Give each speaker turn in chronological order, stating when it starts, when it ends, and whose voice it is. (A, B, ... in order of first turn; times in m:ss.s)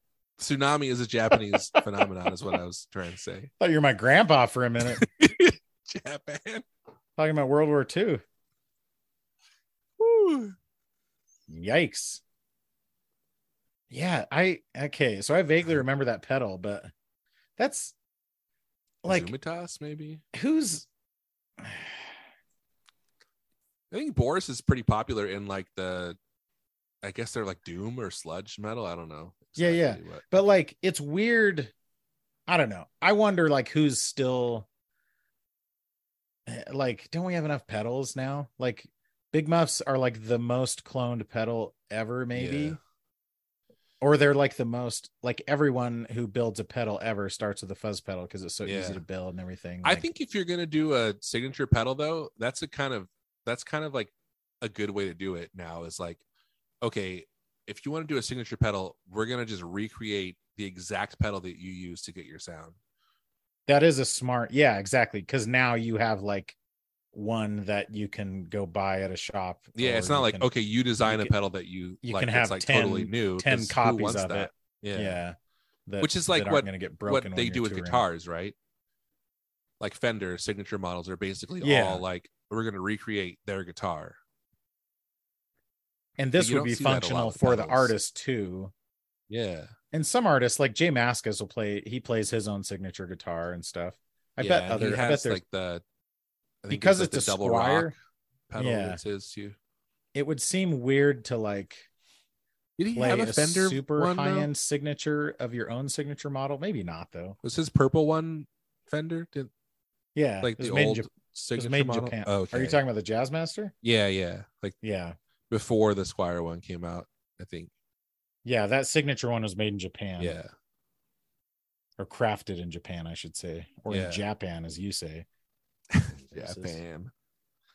0:00.4-0:03.5 A
0:03.6-0:05.0 B
0:04.8-0:06.6 A
0:07.2-0:08.2 B
0:10.0-0:10.5 A
0:11.5-0:12.2 B
0:13.9-0:16.9 B
0:17.6-0:17.9 B
0:19.0-0:19.3 B
0:19.0-0:20.2 A
0:20.3-0:20.9 B
0:21.6-0:22.2 B
0:23.9-0:26.2 A
0:27.0-0:30.3 A
0:29.6-0:31.7 B
0:32.5-0:34.7 B
0:36.5-0:42.8 B
0:42.3-0:42.8 A
0:44.0-0:50.1 B
0:48.6-0:49.0 A
0:49.8-0:56.2 A
0:56.8-1:02.7 A
1:03.7-1:06.6 B
1:07.1-1:10.5 B
1:09.8-1:15.2 A
1:11.0-1:11.3 B
1:12.0-1:15.4 B
1:15.9-1:18.0 B
1:16.0-1:18.5 A
1:19.8-1:24.2 A
1:21.6-1:22.0 B
1:26.2-1:28.7 B
1:26.4-1:27.9 A
1:29.3-1:29.7 A
1:29.9-1:35.4 B
1:34.4-1:35.8 A
1:36.6-1:37.9 A
1:36.7-1:37.9 B
1:38.5-1:39.6 A
1:38.6-1:39.0 B
1:40.1-1:41.9 B
1:42.8-1:44.5 A
1:42.9-1:47.4 B
1:47.4-1:49.5 A
1:50.1-1:53.7 B
1:50.4-1:52.8 A
1:53.8-1:54.8 A
1:54.8-1:55.2 B
1:55.5-1:57.7 A
1:58.4-2:00.4 B
2:00.2-2:00.5 A
2:02.0-2:05.2 B
2:03.9-2:04.2 A
2:05.9-2:07.1 A
2:06.3-2:06.8 B